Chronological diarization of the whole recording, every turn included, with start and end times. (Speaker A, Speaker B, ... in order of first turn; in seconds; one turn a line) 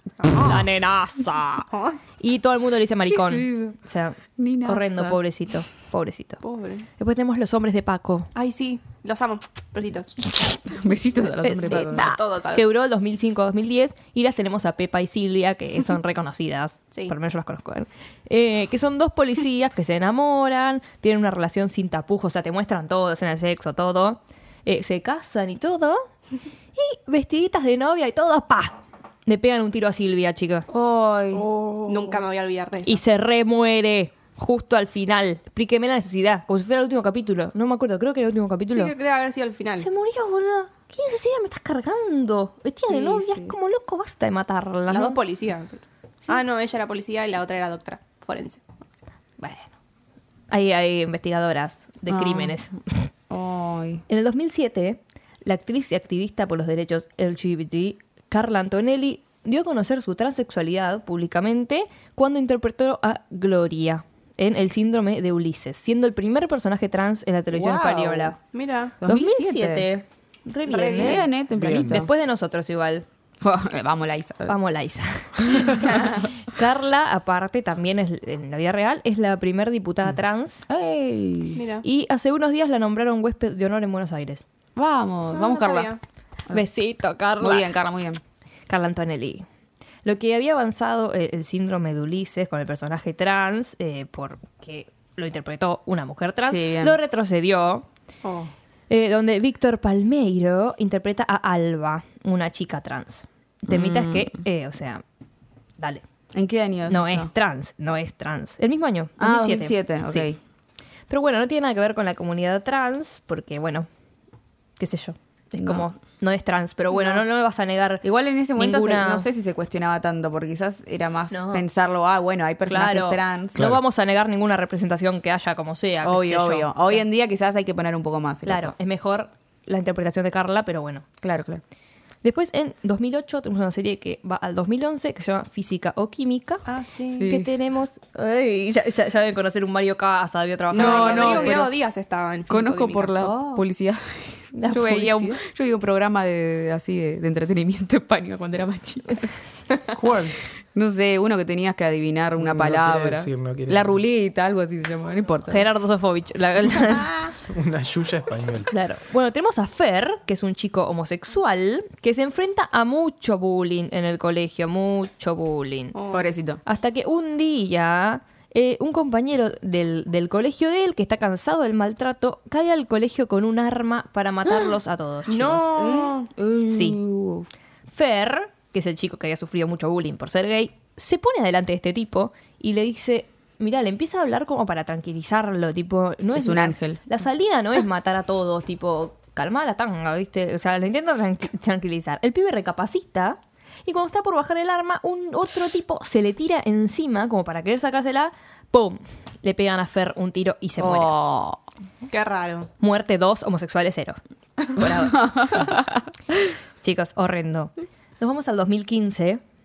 Speaker A: 0.2-0.7
Speaker B: 0.3-1.7
Speaker A: 1.7-2.0
Speaker B: 2.2-6.4
Speaker C: 3.1-3.8
Speaker C: 4.4-5.2
Speaker A: 6.4-6.9
Speaker B: 7.0-8.3
Speaker A: 8.3-10.2
Speaker C: 10.7-12.1
Speaker B: 11.4-26.0
Speaker A: 11.7-12.7
Speaker B: 26.8-30.7
Speaker C: 30.7-31.5
Speaker A: 31.9-33.0
Speaker B: 32.9-38.9
Speaker A: 38.7-39.9
Speaker B: 39.8-45.2
Speaker C: 42.9-43.5
Speaker A: 44.9-48.6
Speaker B: 49.4-49.7
Speaker B: 50.5-53.1
Speaker C: 52.1-52.6
Speaker C: 53.3-54.0
Speaker B: 54.1-68.4
Speaker C: 67.5-68.3
Speaker A: 68.5-69.0
Speaker C: 69.0-69.9
Speaker B: 69.0-73.0
Speaker A: 70.7-71.3
Speaker C: 71.0-72.1
Speaker D: 71.6-72.0
Speaker C: 73.4-74.5
Speaker B: 74.5-80.7
Speaker A: 75.8-76.2
Speaker C: 80.7-81.6
Speaker A: 81.5-81.9
Speaker B: 81.8-84.4
Speaker C: 84.8-85.9
Speaker A: 85.3-86.0
Speaker B: 86.5-87.8
Speaker C: 87.4-88.2
Speaker B: 88.7-89.5
Speaker B: 90.0-97.9
Speaker C: 96.4-97.0
Speaker A: 98.2-98.5
Speaker B: 98.9-105.0
Speaker C: 103.7-104.3
Speaker C: 106.3-107.3
Speaker B: 106.9-110.3
Speaker C: 109.2-110.4
Speaker B: 111.1-113.9
Speaker B: 114.8-118.0
Speaker C: 118.0-123.6
Speaker B: 118.5-119.3
Speaker B: 121.3-121.7
Speaker B: 122.7-127.0
Speaker D: 123.6-123.8
Speaker C: 126.0-128.8
Speaker B: 128.5-131.1
Speaker C: 131.2-131.6
Speaker B: 132.2-136.6
Speaker A: 136.7-137.4
Speaker C: 137.1-137.5
Speaker B: 137.3-141.7
Speaker C: 140.7-141.8
Speaker A: 140.7-143.2
Speaker C: 142.5-149.8
Speaker B: 143.2-143.6
Speaker B: 144.5-145.4
Speaker D: 149.9-150.4
Speaker C: 150.7-155.7
Speaker D: 152.4-153.9
Speaker B: 155.5-157.1
Speaker D: 157.5-158.7
Speaker B: 158.7-166.0
Speaker A: 165.9-166.2
Speaker C: 166.1-166.6
Speaker B: 166.7-175.7
Speaker A: 175.3-176.3
Speaker C: 175.7-177.5
Speaker B: 176.7-177.0
Speaker B: 177.9-201.2
Speaker C: 186.3-187.0
Speaker C: 200.8-201.6
Speaker A: 202.1-202.7
Speaker B: 202.8-205.7
Speaker C: 204.8-206.1
Speaker B: 206.8-209.4